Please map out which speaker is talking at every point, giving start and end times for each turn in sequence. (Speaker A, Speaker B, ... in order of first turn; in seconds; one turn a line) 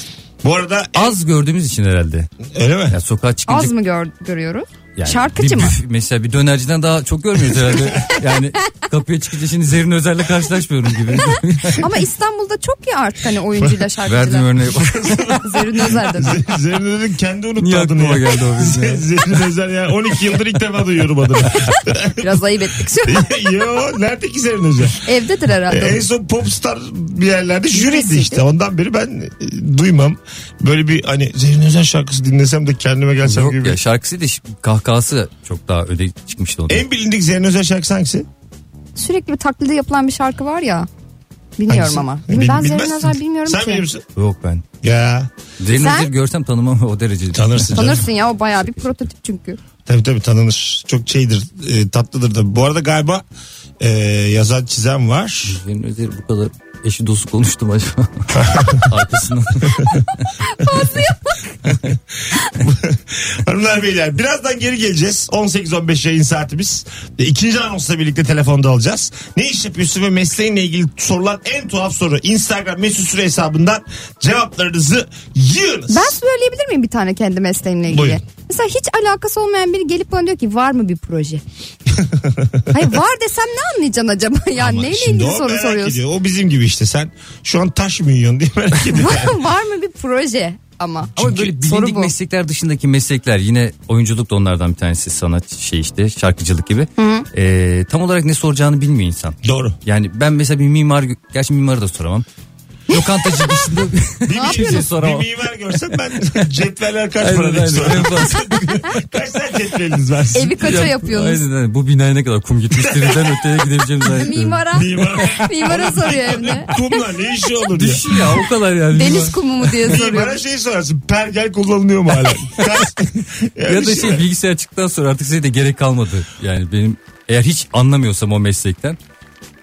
Speaker A: 0.4-1.2
Speaker B: 0.9-2.3
Speaker A: 2.5-3.0
Speaker B: 2.9-3.7
Speaker C: 3.5-5.8
Speaker B: 5.0-11.8
Speaker C: 11.8-14.5
Speaker A: 13.6-13.8
Speaker B: 14.1-15.4
Speaker A: 14.6-22.5
Speaker C: 15.4-16.3
Speaker B: 17.6-19.1
Speaker C: 22.2-23.4
Speaker A: 23.0-25.0
Speaker C: 25.0-26.0
Speaker A: 25.7-33.8
Speaker C: 27.7-28.4
Speaker B: 33.2-36.8
Speaker A: 36.7-38.3
Speaker C: 39.0-40.9
Speaker C: 41.6-43.8
Speaker A: 41.7-44.0
Speaker B: 44.1-44.6
Speaker A: 44.8-45.3
Speaker B: 45.6-48.0
Speaker C: 45.8-46.1
Speaker A: 47.3-48.0
Speaker C: 47.8-49.6
Speaker B: 48.6-48.9
Speaker A: 49.9-53.2
Speaker A: 53.8-55.6
Speaker B: 55.5-60.3
Speaker A: 58.4-58.9
Speaker C: 60.4-61.4
Speaker B: 61.6-62.0
Speaker A: 61.6-76.2
Speaker C: 75.9-81.4
Speaker A: 77.9-78.2
Speaker A: 81.9-83.0
Speaker C: 82.7-86.0
Speaker A: 84.6-89.3
Speaker C: 88.9-92.1
Speaker A: 91.2-91.5
Speaker B: 91.2-102.2
Speaker C: 97.0-97.2
Speaker A: 99.4-99.8
Speaker B: 102.9-105.3
Speaker C: 102.9-103.5
Speaker A: 104.2-110.8
Speaker C: 104.3-104.8
Speaker B: 107.2-108.8
Speaker C: 110.3-111.4
Speaker B: 110.6-114.6
Speaker A: 112.8-113.3
Speaker C: 114.2-116.7
Speaker A: 114.7-118.2
Speaker B: 117.7-119.8
Speaker C: 118.9-120.4
Speaker A: 119.8-124.2
Speaker B: 123.6-129.0